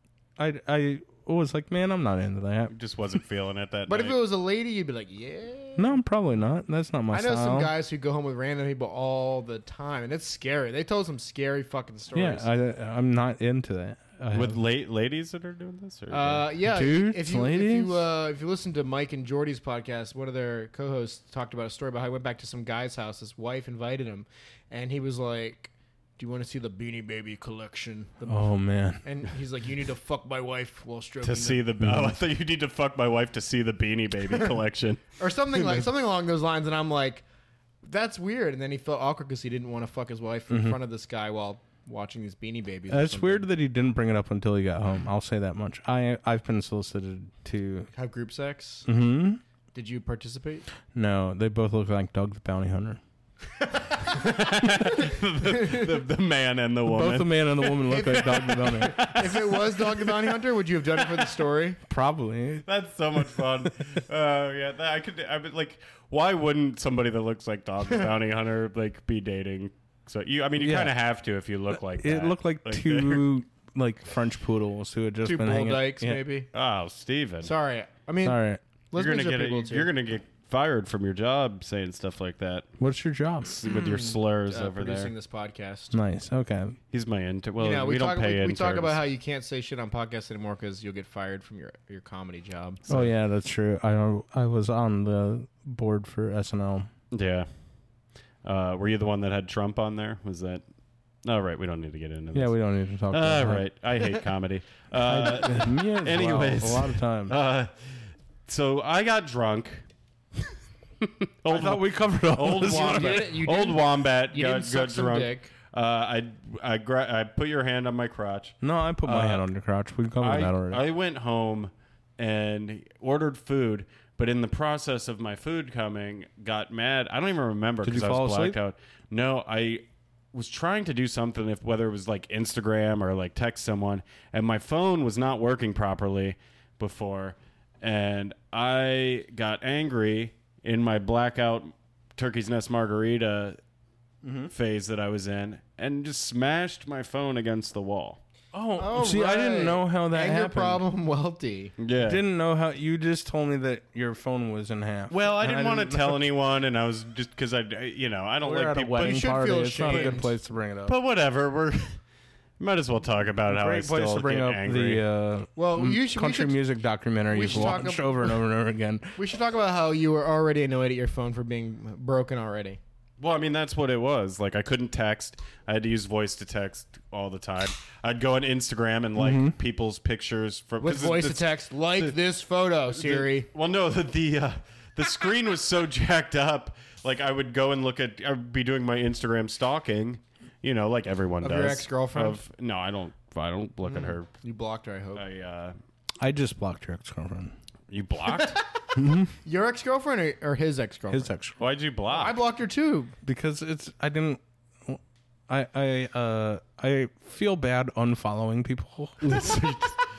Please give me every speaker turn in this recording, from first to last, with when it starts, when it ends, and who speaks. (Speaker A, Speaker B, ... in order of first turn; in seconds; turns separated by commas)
Speaker A: 0.4-2.7, Speaker B: 2.7-4.2, Speaker C: 3.9-6.0, Speaker A: 5.8-7.7, Speaker C: 7.1-12.5, Speaker A: 12.1-14.6, Speaker B: 14.3-16.4, Speaker C: 16.1-31.7, Speaker A: 16.6-18.0, Speaker A: 28.3-29.0, Speaker B: 31.2-35.0, Speaker A: 31.8-32.2, Speaker C: 35.2-37.2, Speaker C: 37.8-43.5, Speaker A: 40.5-40.8, Speaker A: 42.9-47.9, Speaker C: 48.0-48.9, Speaker A: 48.9-49.4, Speaker C: 49.7-50.7, Speaker A: 50.9-53.0, Speaker C: 53.6-56.0, Speaker B: 54.0-60.3, Speaker A: 56.9-59.1, Speaker C: 57.9-61.8, Speaker B: 61.0-61.3, Speaker A: 61.9-62.6, Speaker B: 62.6-73.2, Speaker A: 63.2-63.5, Speaker A: 70.6-71.0, Speaker A: 71.7-76.2, Speaker C: 75.2-76.5, Speaker B: 76.5-77.5, Speaker C: 77.4-79.9, Speaker A: 78.2-78.6, Speaker B: 79.0-82.7, Speaker A: 82.8-83.6, Speaker B: 83.6-85.1, Speaker C: 83.6-86.0, Speaker A: 85.9-86.8, Speaker B: 86.9-89.0, Speaker C: 87.6-92.8, Speaker B: 92.8-93.1, Speaker A: 92.9-96.9, Speaker B: 97.1-97.5, Speaker B: 98.4-100.6, Speaker B: 101.2-109.9, Speaker A: 102.3-103.7, Speaker A: 105.0-107.3, Speaker B: 111.0-119.5, Speaker A: 111.5-113.3, Speaker C: 112.5-115.5, Speaker A: 118.6-120.8, Speaker B: 120.2-143.6, Speaker A: 127.8-128.6, Speaker A: 144.2-144.5, Speaker B: 144.5-148.2, Speaker A: 148.5-150.8, Speaker C: 148.8-151.8, Speaker B: 151.8-152.2, Speaker A: 152.0-156.3, Speaker B: 155.1-160.2, Speaker A: 158.4-160.9, Speaker C: 159.0-160.3, Speaker B: 160.8-162.0, Speaker B: 162.6-165.0, Speaker A: 163.5-169.2, Speaker C: 165.6-166.6, Speaker C: 167.3-168.4, Speaker C: 169.2-172.8, Speaker B: 173.2-182.2, Speaker A: 179.2-179.6, Speaker C: 180.8-183.5, Speaker B: 182.9-194.3, Speaker C: 191.4-192.4, Speaker C: 193.9-195.2, Speaker B: 195.2-195.8, Speaker A: 196.2-197.6, Speaker B: 197.9-198.6, Speaker C: 198.3-201.3, Speaker A: 199.0-199.3, Speaker A: 201.1-201.6, Speaker B: 201.6-202.4, Speaker C: 202.1-203.1, Speaker A: 203.2-209.6, Speaker B: 209.2-210.0